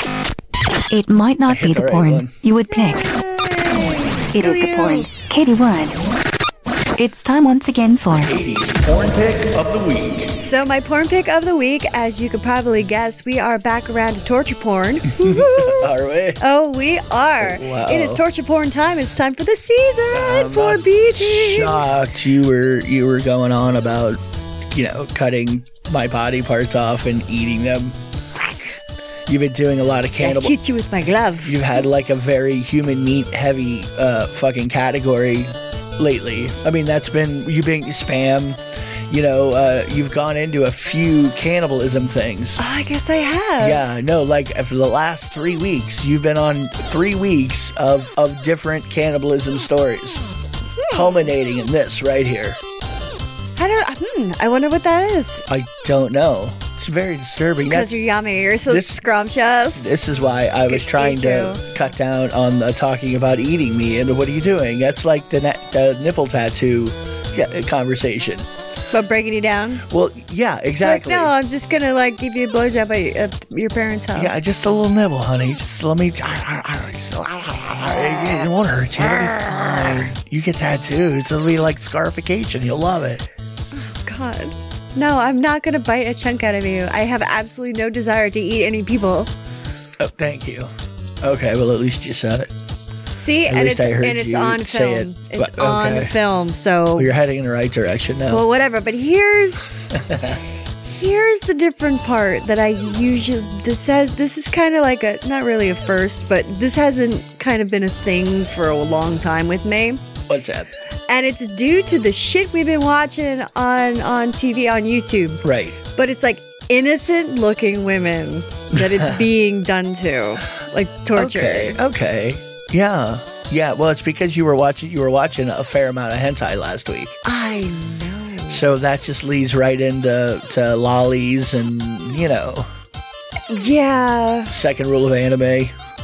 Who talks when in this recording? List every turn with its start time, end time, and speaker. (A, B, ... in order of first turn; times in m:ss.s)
0:00.9-0:03.1 A
0:01.5-0:02.4 B
0:02.7-0:05.1 C
0:03.8-0:06.1 A
0:07.0-0:08.4 A
0:08.2-0:10.4 B
0:10.4-0:22.0 C
0:15.2-0:16.4 B
0:17.4-0:18.2 B
0:20.1-0:28.0 B
0:29.3-0:30.6 B
0:30.2-0:31.7 C
0:31.4-0:42.6 B
0:42.6-0:43.8 C
0:43.6-0:50.2 B
0:50.8-0:51.3 C
0:50.9-0:52.6 B
0:53.6-0:55.5 C
0:55.5-0:58.0 B
0:57.6-0:59.9 C
0:58.7-0:59.0 B
0:59.8-1:08.5 B
1:00.6-1:01.6 C
1:08.9-1:09.8 C
1:09.9-1:11.3 B
1:10.8-1:14.4 C
1:14.1-1:23.2 B
1:19.0-1:20.0 C
1:23.7-1:29.3 C
1:30.0-1:30.7 B
1:31.2-1:32.5 B
1:33.1-1:37.1 C
1:33.4-1:36.1 B
1:37.0-1:38.4 B
1:38.3-1:40.0 C
1:40.0-1:40.4 B
1:40.8-1:50.0 C
1:50.3-1:50.7 B
1:51.1-2:01.8 C
1:55.4-1:55.8 B
1:58.7-1:59.2 B
2:01.1-2:07.2 B
2:07.2-2:08.7 C
2:08.5-2:12.7 B
2:13.5-2:14.5 C
2:14.5-2:15.7 B